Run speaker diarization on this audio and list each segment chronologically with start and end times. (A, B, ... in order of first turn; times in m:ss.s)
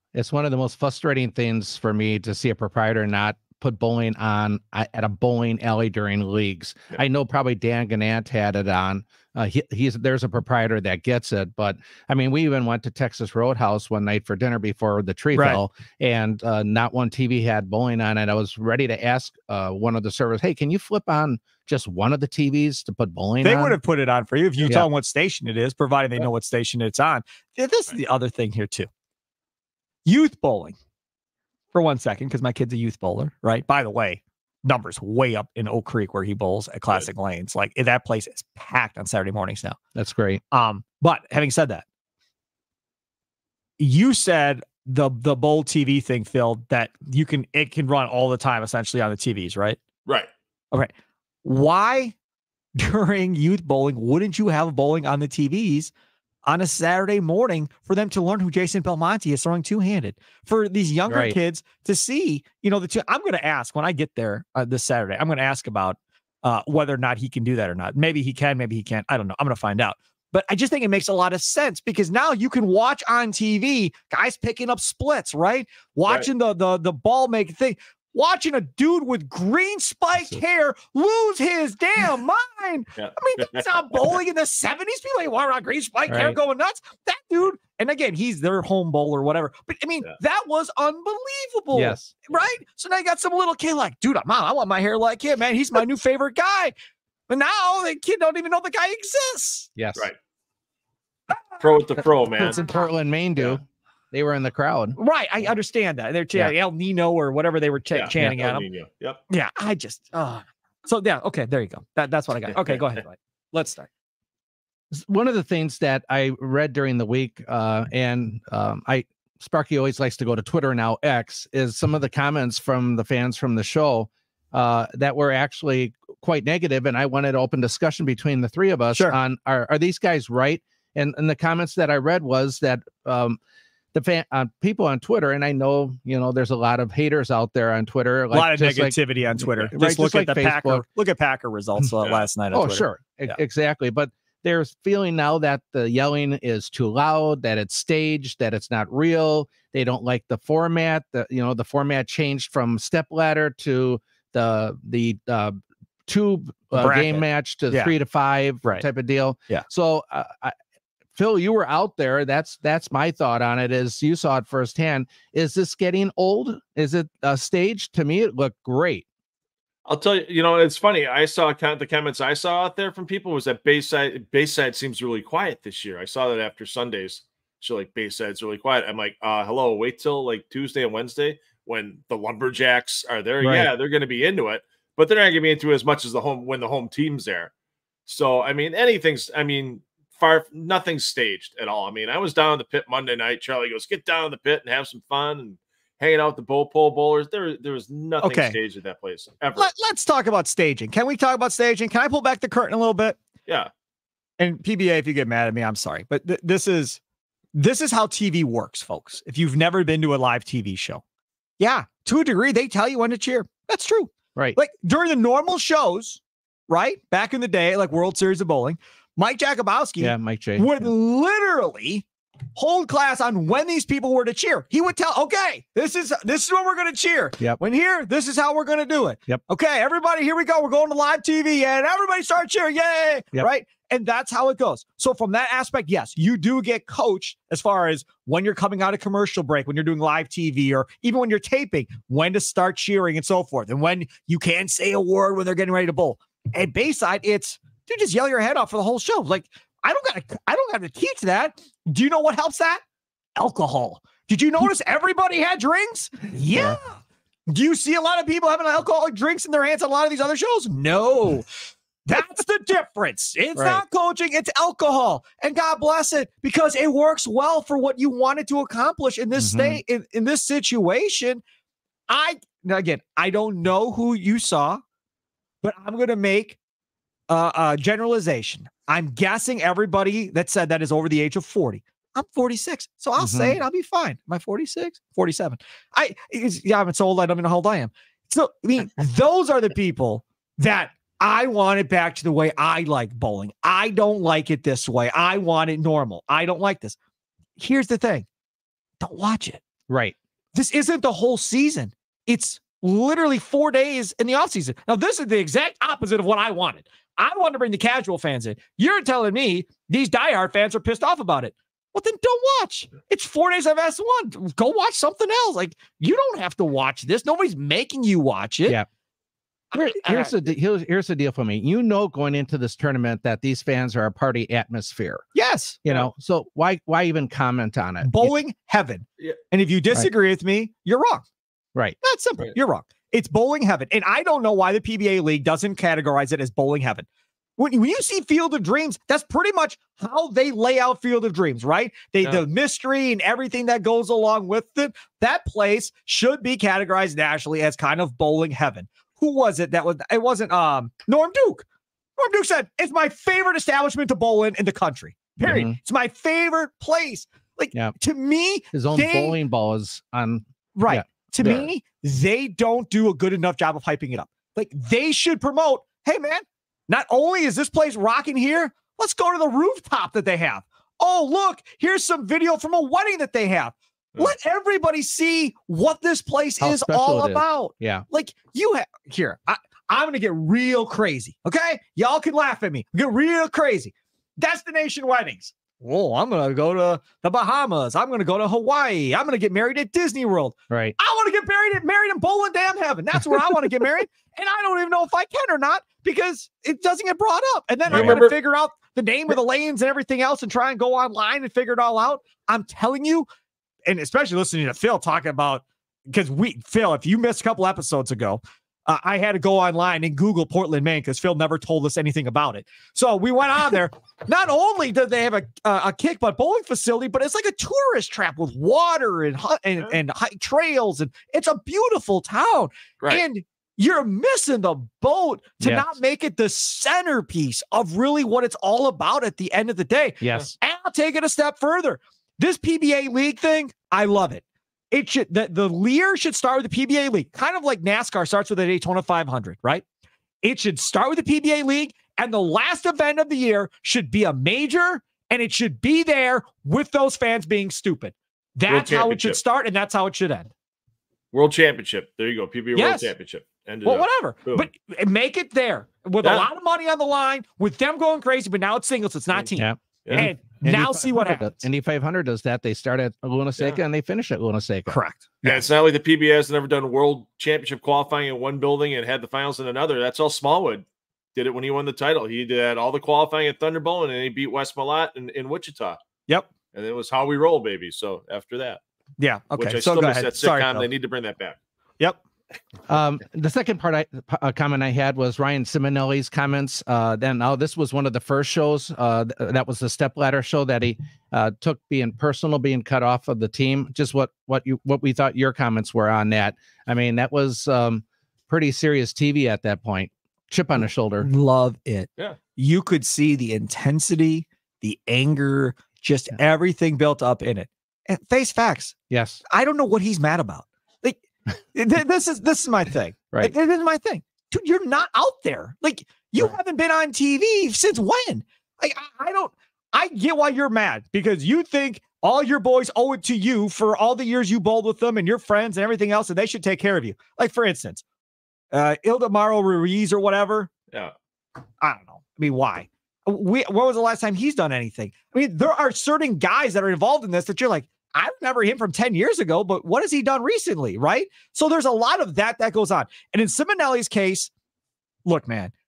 0:00.1-0:23.8 A
0:15.3-0:15.6 B
0:23.4-0:28.9 B
0:24.6-0:24.9 A
0:30.0-0:30.8 B
0:31.7-0:39.8 B
0:40.0-0:40.4 A
0:40.5-0:41.8 B
0:43.8-0:49.8 B
0:51.4-0:52.1 B
0:52.8-0:55.9 B
0:56.5-1:36.7 B
1:01.1-1:01.4 A
1:23.0-1:24.1 C
1:26.1-1:26.4 A
1:31.7-1:32.1 A
1:37.3-1:39.7 B
1:39.8-1:40.1 A
1:41.3-1:41.6 B
1:41.6-1:42.6 C
1:42.4-1:45.0 A
1:45.0-1:48.7 B
1:47.9-1:49.2 C
1:49.3-1:53.9 B
1:54.9-2:13.4 A
2:13.9-2:20.8 A
2:18.3-2:23.4 B
2:22.0-2:22.3 C
2:22.5-2:35.6 A
2:36.1-2:40.6 A
2:36.8-2:37.9 B
2:41.1-2:49.1 A
2:49.9-3:07.5 C
3:03.4-3:03.7 A
3:08.1-3:19.7 C
3:18.2-3:18.6 B
3:19.6-3:23.2 B
3:24.4-3:27.0 B
3:27.6-3:31.0 B
3:31.6-4:12.8 B
3:40.0-3:40.9 A
4:13.4-4:21.5 B
4:16.5-4:16.8 A
4:22.1-4:31.4 B
4:23.6-4:23.8 A
4:29.4-4:29.8 A
4:32.1-4:34.8 B
4:35.6-4:36.6 B
4:37.3-4:57.0 B
4:43.2-4:43.6 A
4:57.6-4:58.3 B
4:59.0-4:59.6 B
4:59.9-5:00.2 A
5:00.6-5:18.8 B
5:19.7-5:25.2 A
5:19.7-5:20.3 B
5:25.4-5:25.8 B
5:25.8-5:28.3 A
5:28.0-5:31.2 B
5:32.0-5:37.1 B
5:37.6-5:51.6 B
5:52.2-5:59.4 B
5:55.4-5:55.8 A
5:58.7-6:01.7 A
6:00.8-6:43.2 B
6:16.6-6:18.1 A
6:30.7-6:31.0 A
6:33.4-6:33.7 A
6:37.9-6:38.3 C
6:37.9-6:38.2 A
6:43.9-7:19.8 B
7:05.6-7:06.0 A
7:10.2-7:10.5 A
7:20.4-7:30.5 B
7:28.7-7:29.4 C
7:31.3-7:34.7 C
7:32.8-7:33.1 B
7:33.8-7:41.6 B
7:39.5-7:45.6 A
7:44.9-7:45.3 B
7:45.4-7:56.0 C
7:56.7-7:58.8 C
7:59.2-8:00.9 B
7:59.6-8:01.6 C
8:02.9-8:21.3 A
8:21.2-8:28.9 B
8:29.1-8:29.4 A
8:29.5-8:48.0 B
8:48.7-8:50.7 B
8:51.8-9:04.5 B
9:05.3-9:05.7 B